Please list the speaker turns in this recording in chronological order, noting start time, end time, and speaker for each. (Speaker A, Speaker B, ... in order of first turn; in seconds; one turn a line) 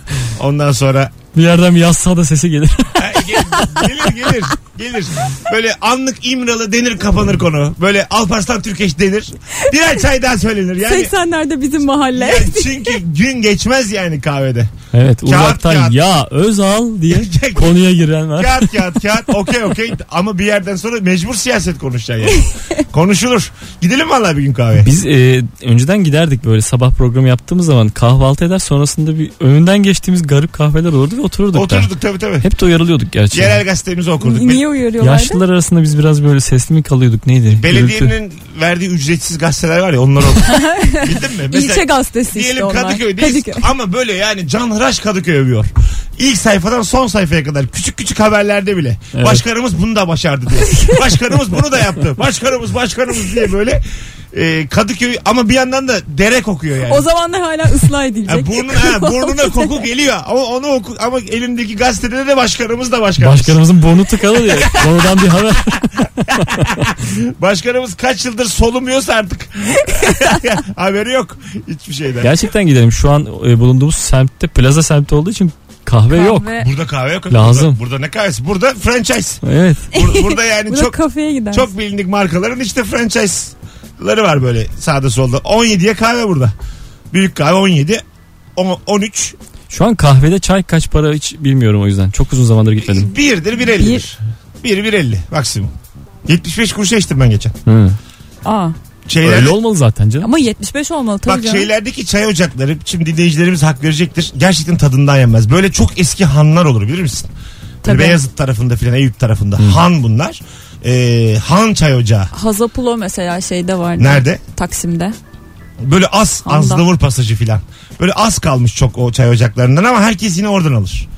Speaker A: 0.3-1.1
Speaker B: 1.3-3.4
Speaker A: 3.0-11.1
Speaker C: 10.8-13.0
Speaker A: 12.1-14.7
Speaker B: 14.9-18.8
Speaker A: 15.2-16.0
Speaker A: 17.1-17.8
Speaker A: 18.4-24.9
Speaker B: 24.8-31.9
Speaker A: 31.5-32.5
Speaker B: 32.4-33.6
Speaker A: 33.3-34.6
Speaker C: 34.2-35.4
Speaker B: 35.0-38.1
Speaker A: 37.5-57.1
Speaker C: 40.4-43.7
Speaker B: 49.1-49.4
Speaker C: 56.9-59.8
Speaker A: 58.3-63.6
Speaker B: 63.2-66.9
Speaker A: 66.3-72.3
Speaker B: 72.2-76.5
Speaker C: 76.1-76.7
Speaker A: 76.6-81.0
Speaker B: 77.3-77.8
Speaker B: 79.4-79.9
Speaker C: 80.0-81.7
Speaker A: 81.5-86.5
Speaker A: 87.1-88.0
Speaker A: 88.6-89.4
Speaker B: 89.7-93.1
Speaker A: 92.8-95.7
Speaker C: 93.8-94.0
Speaker A: 96.3-97.6
Speaker B: 97.7-98.0
Speaker C: 98.5-98.8
Speaker A: 99.1-99.6
Speaker B: 99.2-100.3
Speaker C: 100.2-101.7
Speaker A: 101.3-107.3
Speaker C: 107.8-108.2
Speaker A: 107.8-112.3
Speaker C: 112.3-115.2
Speaker A: 114.0-114.4
Speaker A: 115.8-121.1
Speaker C: 116.5-116.8